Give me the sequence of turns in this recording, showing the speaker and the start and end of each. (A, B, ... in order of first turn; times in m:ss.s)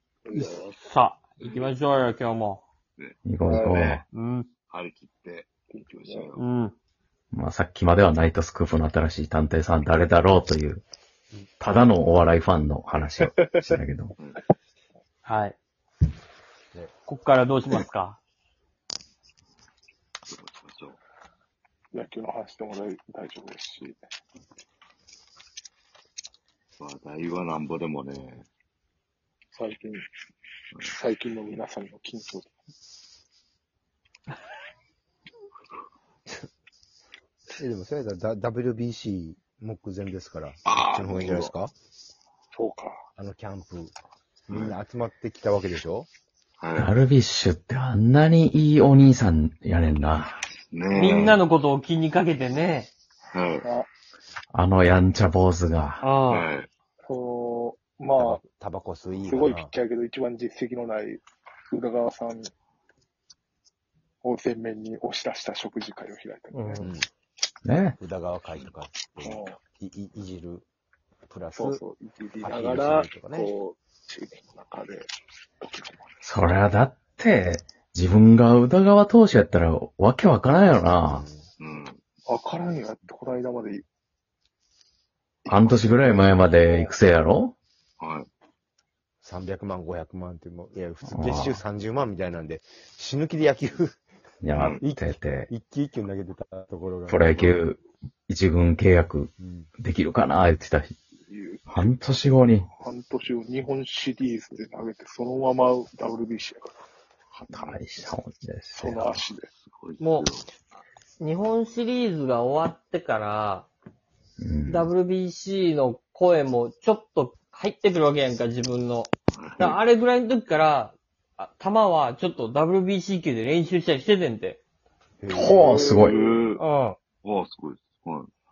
0:00.3-0:02.6 A
0:03.0-0:04.0 B
0:03.2-0:04.0 C
0:03.4-0:03.8 D
0:04.1-0:04.5 A
0:04.7-0:06.4 B
0:05.7-0:06.3 D
0:06.4-0:06.7 A
0:07.3-0:10.8 C
0:11.6-0:14.1 C
0:13.2-0:13.6 D
0:15.2-0:15.6 A
0:17.1-0:18.2 A
0:20.3-0:21.0 B
0:21.9-0:24.1 D
0:26.8-0:28.5 B
0:29.5-0:30.1 D
0:30.8-0:32.4 D
0:37.6-0:41.7 E
0:40.6-0:41.5 B
0:42.5-0:43.0 D
0:43.2-0:43.9 E
0:44.5-0:46.1 E
0:44.5-0:44.8 B
0:46.6-0:46.9 B
0:46.8-0:50.4 C
0:50.5-0:51.4 B
0:50.9-0:52.9 A
0:53.3-0:53.7 B
0:54.5-0:56.0 C
0:56.0-0:56.5 A
0:56.3-0:56.7 B
0:57.0-0:58.4 D
0:58.2-0:59.7 E
0:59.3-1:02.5 D
1:04.2-1:06.9 D
1:06.5-1:06.9 A
1:06.8-1:07.1 E
1:07.6-1:08.0 C
1:08.0-1:10.7 E
1:09.2-1:09.6 D
1:11.3-1:11.8 E
1:11.6-1:15.1 D
1:12.4-1:13.5 E
1:15.6-1:16.2 D
1:16.2-1:21.2 C
1:21.0-1:21.4 E
1:21.6-1:22.0 B
1:22.3-1:23.8 D
1:25.4-1:27.0 D
1:25.5-1:27.6 C
1:28.0-1:28.3 B
1:29.2-1:34.0 E
1:31.1-1:31.6 C
1:34.4-1:35.5 C
1:34.5-1:34.8 B
1:34.8-1:37.3 E
1:37.1-1:41.0 C
1:37.3-1:37.6 B
1:39.4-1:39.7 E
1:41.3-1:41.9 D
1:41.7-1:42.7 C
1:42.8-1:46.7 D
1:47.4-1:47.8 B
1:47.4-1:49.2 C
1:48.7-1:49.5 D
1:49.6-1:50.5 B
1:50.0-1:50.3 A
1:51.2-1:53.7 A
1:54.4-1:54.9 C
1:54.7-2:04.6 A
1:59.4-1:59.8 B
2:05.2-2:05.8 E
2:05.3-2:06.2 C
2:05.4-2:06.4 D
2:06.0-2:06.6 B
2:06.6-2:07.0 A
2:07.2-2:08.3 B